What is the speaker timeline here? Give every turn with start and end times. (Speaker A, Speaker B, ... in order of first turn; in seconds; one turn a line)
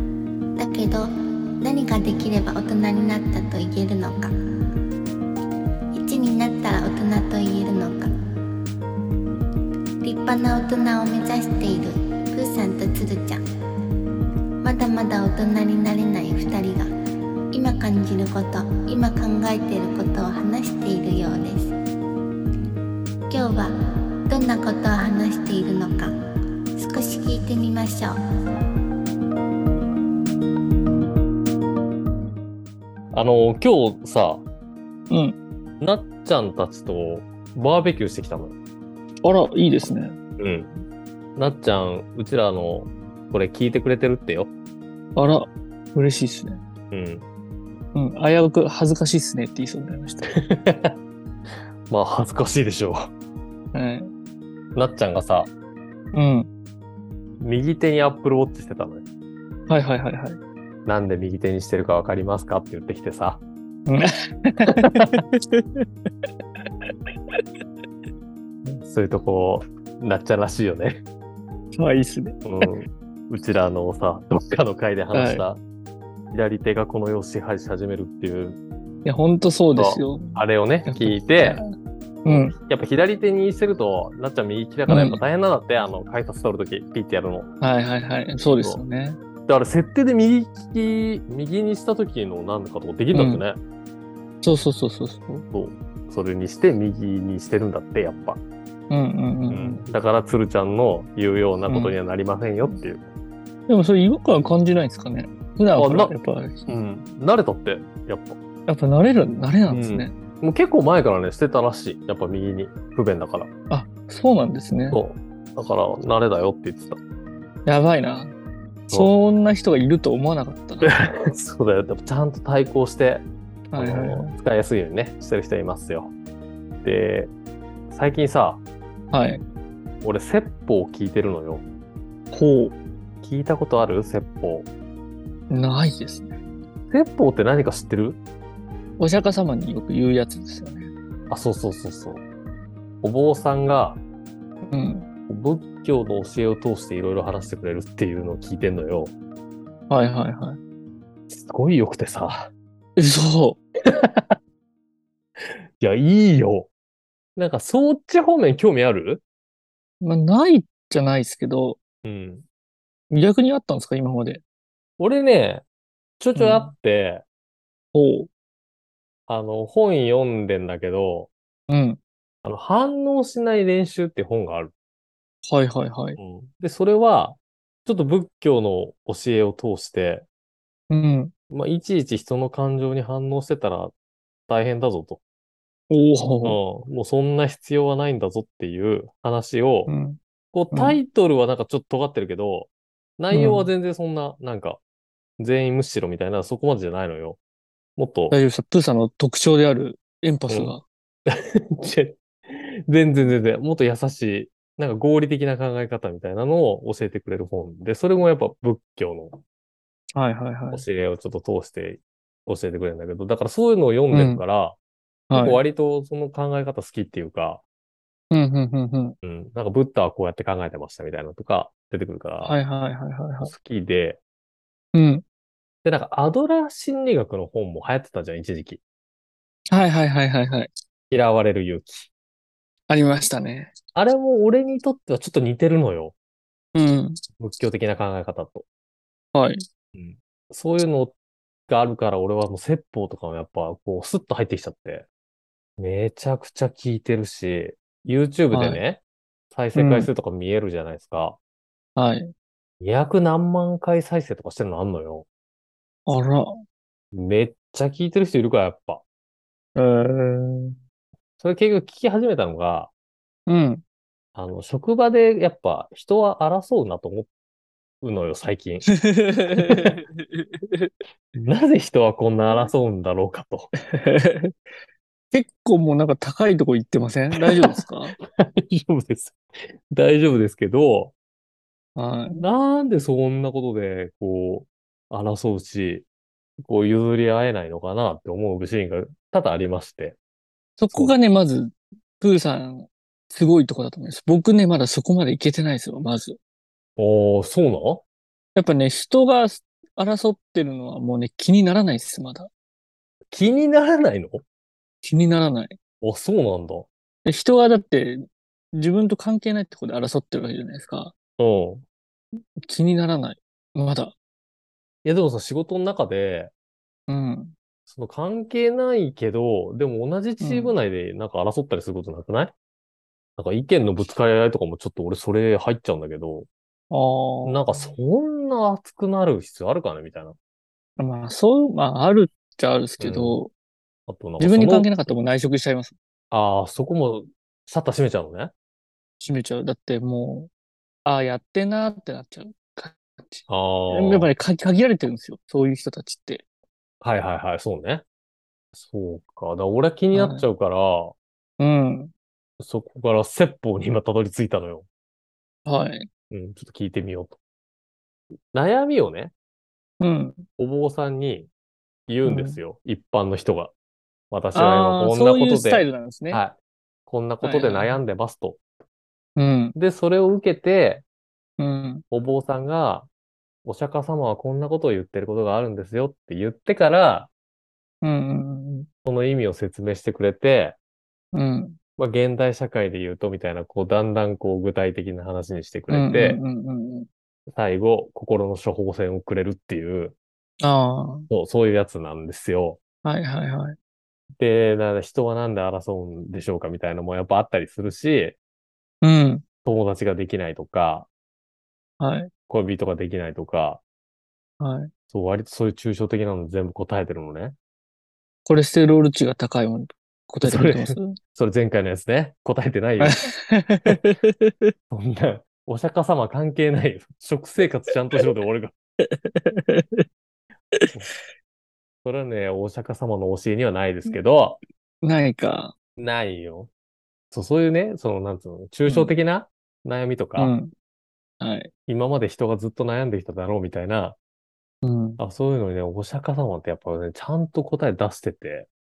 Speaker A: 0.6-1.1
Speaker A: 1.6-4.3
Speaker A: 5.9-8.1
Speaker A: 10.0-13.4
Speaker A: 14.6-16.9
Speaker A: 17.5-21.7
Speaker A: 23.3-23.7
Speaker A: 24.3-26.1
Speaker A: 26.8-28.1
Speaker B: 33.1-34.4
Speaker C: 35.1-35.4
Speaker B: 35.8-38.5
Speaker C: 39.2-40.1
Speaker B: 40.4-40.7
Speaker B: 41.4-44.5
Speaker C: 45.1-46.6
Speaker B: 46.9-47.2
Speaker C: 47.9-50.3
Speaker B: 50.3-51.0
Speaker B: 51.9-53.1
Speaker C: 53.7-54.1
Speaker B: 54.7-55.5
Speaker C: 56.1-56.5
Speaker B: 57.4-59.0
Speaker C: 59.7-60.4
Speaker B: 60.9-63.4
Speaker C: 63.9-65.8
Speaker B: 64.8-65.2
Speaker B: 68.6-71.0
Speaker C: 71.7-72.7
Speaker B: 72.4-75.6
Speaker C: 75.1-75.4
Speaker B: 76.3-78.6
Speaker C: 79.0-81.6
Speaker B: 79.7-81.6
Speaker C: 82.2-82.5
Speaker B: 82.3-87.5
Speaker C: 84.9-85.2
Speaker C: 87.6-89.2
Speaker B: 89.5-93.6
Speaker C: 93.1-93.4
Speaker C: 94.4-95.4
Speaker B: 95.5-98.4
Speaker C: 98.9-99.8
Speaker B: 99.5-103.0
Speaker C: 101.7-102.0
Speaker C: 103.7-106.7
Speaker B: 105.8-106.1
Speaker B: 106.7-108.4
Speaker C: 108.7-110.1
Speaker B: 109.7-113.5
Speaker C: 113.7-115.0
Speaker B: 114.9-117.0
Speaker C: 117.7-118.3
Speaker C: 118.9-120.9
Speaker B: 120.8-126.1
Speaker C: 123.7-124.3
Speaker B: 126.8-127.3
Speaker B: 127.9-128.6
Speaker C: 129.1-129.4
Speaker B: 130.0-131.6
Speaker C: 132.3-132.7
Speaker B: 133.2-134.7
Speaker C: 135.5-136.3
Speaker B: 136.9-138.2
Speaker C: 139.0-140.9
Speaker B: 141.3-142.2
Speaker B: 143.0-144.0
Speaker C: 144.7-145.1
Speaker B: 145.3-149.1
Speaker C: 149.9-150.6
Speaker B: 151.3-152.5
Speaker C: 153.0-153.6
Speaker B: 153.9-154.3
Speaker B: 155.8-156.7
Speaker B: 157.3-159.2
Speaker C: 160.0-161.8
Speaker B: 162.0-162.4
Speaker C: 163.1-164.4
Speaker B: 165.0-165.6
Speaker B: 166.2-167.2
Speaker C: 166.3-166.7
Speaker C: 167.9-168.3
Speaker B: 169.3-171.3
Speaker C: 171.7-172.0
Speaker B: 172.4-174.7
Speaker C: 175.5-176.2
Speaker B: 176.2-180.2
Speaker C: 180.9-181.3
Speaker B: 181.5-183.9
Speaker B: 184.5-185.2
Speaker C: 185.9-186.6
Speaker B: 186.4-189.9
Speaker C: 189.9-190.2
Speaker B: 190.5-194.8
Speaker C: 190.7-191.0
Speaker C: 193.3-193.7
Speaker B: 195.4-197.4
Speaker B: 198.0-198.3
Speaker C: 198.3-200.8
Speaker B: 200.5-209.4
Speaker C: 210.2-210.8
Speaker B: 210.7-214.8
Speaker C: 214.1-214.4
Speaker C: 215.3-215.6
Speaker B: 215.3-217.6
Speaker C: 218.3-219.2
Speaker B: 219.2-222.6
Speaker C: 222.4-223.5
Speaker B: 223.4-224.2
Speaker C: 224.9-225.2
Speaker B: 225.8-228.8
Speaker C: 229.7-230.7
Speaker B: 231.1-232.1
Speaker C: 232.9-233.7
Speaker B: 233.9-236.1
Speaker C: 236.7-237.2
Speaker B: 237.4-238.6
Speaker C: 239.3-239.6
Speaker B: 239.9-241.1
Speaker B: 241.7-245.1
Speaker B: 245.8-249.0
Speaker C: 248.5-248.8
Speaker B: 249.5-251.4
Speaker C: 249.7-250.1
Speaker C: 251.9-252.3
Speaker B: 252.8-255.2
Speaker C: 256.1-256.6
Speaker B: 257.1-259.0
Speaker C: 259.8-260.8
Speaker B: 261.4-262.9
Speaker C: 263.5-263.8
Speaker B: 264.3-267.3
Speaker B: 268.0-268.9
Speaker C: 268.9-270.9
Speaker B: 269.6-269.9
Speaker B: 271.4-273.7
Speaker C: 273.9-274.5
Speaker C: 275.3-278.1
Speaker B: 277.4-279.4
Speaker B: 279.9-281.1
Speaker C: 281.9-282.4
Speaker B: 282.4-286.0
Speaker B: 286.6-290.2
Speaker C: 290.8-296.4
Speaker B: 297.0-298.0
Speaker C: 298.6-302.5
Speaker B: 303.3-304.4
Speaker C: 305.0-305.8
Speaker B: 306.0-306.9
Speaker C: 307.2-311.1
Speaker B: 311.4-311.8
Speaker C: 312.6-314.1
Speaker B: 315.0-316.5
Speaker C: 317.1-317.5
Speaker B: 317.9-322.5
Speaker C: 320.4-320.7
Speaker B: 323.4-326.5
Speaker C: 326.9-327.9
Speaker B: 327.4-330.3
Speaker C: 331.0-333.5
Speaker B: 333.0-333.4
Speaker B: 334.1-334.9
Speaker C: 334.4-335.9
Speaker B: 336.3-338.5
Speaker C: 339.2-340.5
Speaker C: 341.1-346.4
Speaker B: 343.5-344.3
Speaker B: 347.0-348.0
Speaker B: 348.7-351.1
Speaker C: 350.1-350.5
Speaker C: 351.6-352.1
Speaker B: 352.6-354.8
Speaker C: 355.6-356.1
Speaker B: 356.3-357.4
Speaker B: 358.5-359.3
Speaker C: 360.0-360.4
Speaker B: 360.6-361.5
Speaker B: 362.1-363.7
Speaker C: 362.2-362.6
Speaker B: 364.3-366.6
Speaker C: 364.5-366.4
Speaker B: 367.1-368.6
Speaker C: 367.4-368.0
Speaker C: 369.4-369.8
Speaker B: 369.8-371.0
Speaker C: 371.6-372.0
Speaker B: 372.1-373.1
Speaker B: 373.6-377.3
Speaker C: 378.0-378.9
Speaker B: 379.0-380.8
Speaker C: 381.3-381.8
Speaker B: 382.0-386.4
Speaker C: 385.9-387.1
Speaker B: 387.5-390.1
Speaker C: 390.6-391.3
Speaker B: 391.3-392.8
Speaker C: 393.0-393.8
Speaker B: 394.4-398.4
Speaker C: 399.0-399.4
Speaker B: 399.6-401.1
Speaker C: 402.0-402.3
Speaker B: 402.5-403.8
Speaker C: 404.6-404.9
Speaker B: 405.1-407.6
Speaker C: 408.4-411.2
Speaker B: 410.4-413.2
Speaker C: 413.0-414.5
Speaker B: 414.9-418.7
Speaker C: 419.0-420.0
Speaker C: 420.8-421.1
Speaker B: 422.0-424.6
Speaker C: 425.0-425.7
Speaker B: 426.0-426.7
Speaker B: 427.3-430.5
Speaker C: 428.9-429.1
Speaker C: 430.4-430.7
Speaker C: 431.4-431.7
Speaker B: 431.9-434.2
Speaker C: 434.8-435.2
Speaker B: 435.2-438.7